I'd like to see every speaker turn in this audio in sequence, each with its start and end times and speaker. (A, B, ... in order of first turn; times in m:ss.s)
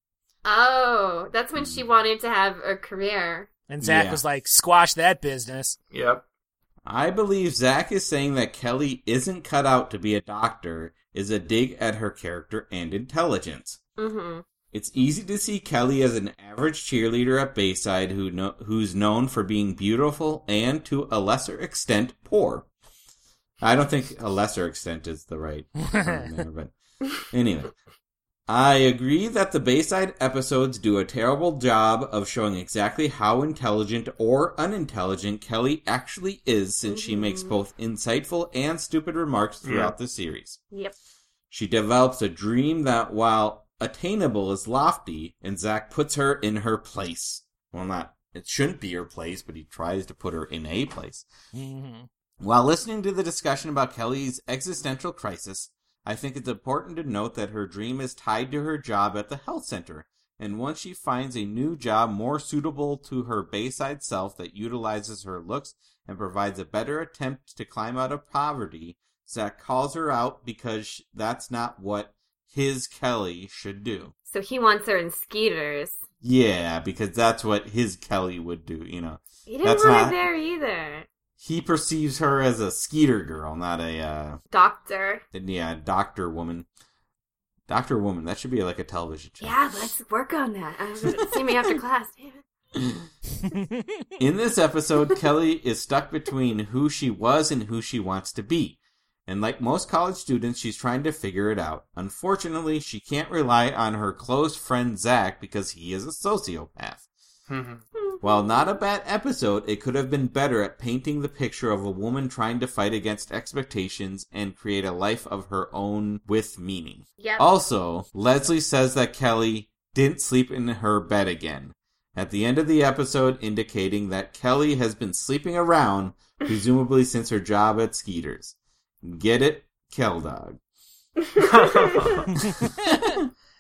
0:00.4-0:03.5 A
0:01.6-0:01.8 B
0:03.7-0:05.8 C
0:03.8-0:04.2 B
0:05.9-0:06.2 D
0:06.8-0:13.8 B
0:14.0-0:14.4 A
0:14.7-0:22.7 B
0:23.6-0:26.7 B
0:25.9-0:26.3 C
0:27.3-0:27.7 B
0:28.5-0:40.6 B
0:36.9-0:37.5 A
0:39.6-0:39.9 D
0:41.5-0:51.3 B
0:51.5-0:52.1 C
0:52.4-1:14.1 B
1:14.3-1:16.0 A
1:16.2-1:20.2 B
1:19.5-1:21.1 A
1:21.4-1:24.4 B
1:24.5-1:25.2 A
1:25.3-1:26.7 B
1:27.7-1:29.6 B
1:29.4-1:32.4 A
1:33.5-1:33.8 C
1:34.2-1:47.0 B
1:47.5-1:47.8 D
1:48.0-1:48.7 A
1:48.2-2:10.6 B
1:57.2-1:57.5 A
2:11.4-2:12.3 D
2:12.6-2:13.3 B